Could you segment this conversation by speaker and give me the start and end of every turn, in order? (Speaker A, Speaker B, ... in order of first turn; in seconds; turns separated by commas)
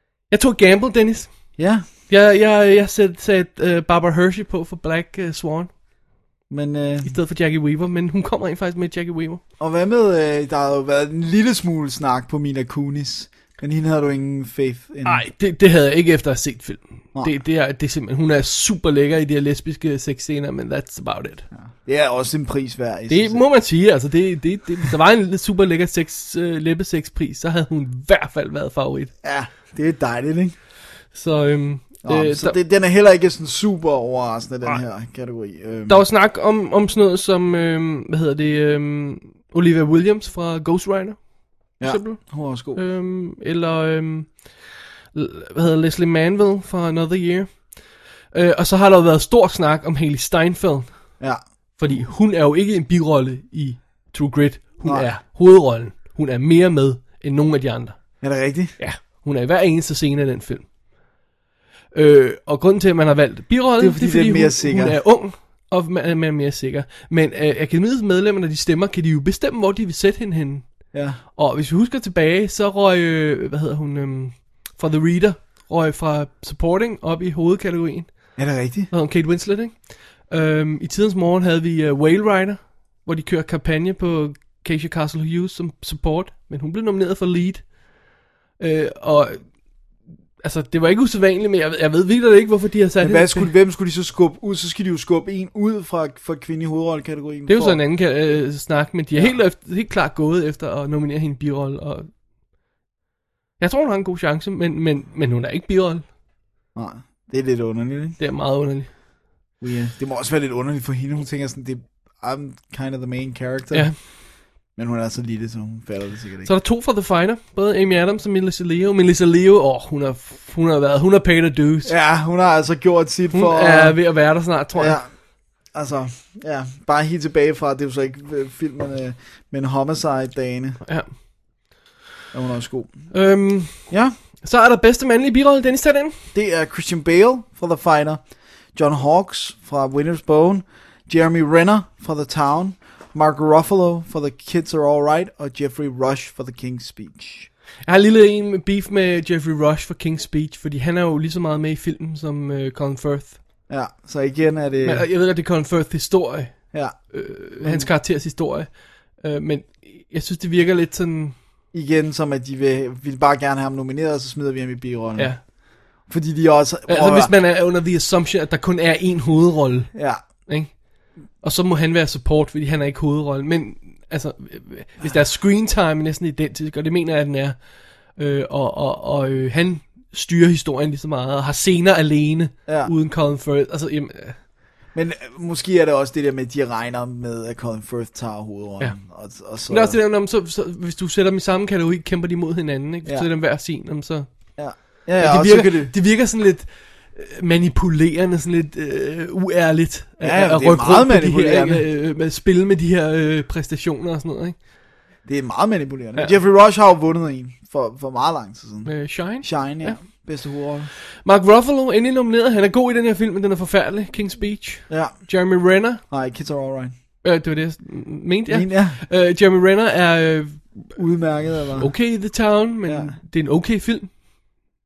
Speaker A: 0.3-5.7, Speaker B: 1.6-1.9, Speaker B: 6.5-7.1, Speaker A: 7.0-9.4, Speaker B: 9.6-15.2, Speaker A: 15.0-21.4, Speaker B: 21.5-23.4, Speaker A: 23.1-29.1, Speaker B: 29.2-30.5, Speaker A: 31.1-32.6, Speaker B: 32.0-36.0, Speaker A: 35.9-51.2, Speaker B: 41.8-42.8, Speaker A: 51.8-58.2, Speaker B: 54.8-55.1, Speaker B: 58.2-58.7, Speaker A: 58.8-60.7, Speaker A: 61.9-87.8, Speaker B: 63.8-65.0, Speaker B: 70.9-71.2, Speaker B: 78.4-78.9, Speaker A: 88.6-89.5, Speaker A: 90.4-93.5, Speaker B: 93.0-97.8, Speaker A: 97.5-102.1, Speaker B: 99.2-99.4, Speaker A: 103.6-106.0, Speaker B: 106.7-108.2, Speaker A: 108.2-108.9, Speaker B: 109.6-114.1, Speaker B: 114.7-116.5, Speaker A: 116.4-121.9, Speaker B: 121.8-124.0, Speaker A: 123.3-125.0, Speaker B: 124.7-125.1, Speaker B: 125.6-130.8, Speaker A: 130.8-131.1, Speaker B: 132.3-133.1, Speaker A: 133.1-136.2, Speaker B: 133.9-134.1, Speaker B: 136.3-147.5, Speaker A: 147.8-153.4, Speaker B: 153.7-155.1, Speaker A: 154.8-161.3, Speaker B: 156.7-157.9, Speaker B: 161.7-167.3, Speaker A: 165.2-165.4, Speaker A: 166.9-184.4, Speaker B: 169.9-170.2, Speaker B: 182.7-182.9, Speaker B: 184.9-190.0, Speaker A: 189.7-194.3, Speaker B: 194.6-195.9, Speaker A: 195.2-204.6, Speaker B: 200.2-201.8, Speaker B: 205.2-210.9, Speaker A: 208.8-210.3, Speaker A: 211.2-216.0, Speaker B: 214.9-215.2, Speaker B: 216.1-216.9, Speaker A: 217.2-220.9, Speaker B: 218.5-219.0, Speaker B: 220.9-221.9, Speaker A: 221.8-224.1, Speaker B: 222.8-223.2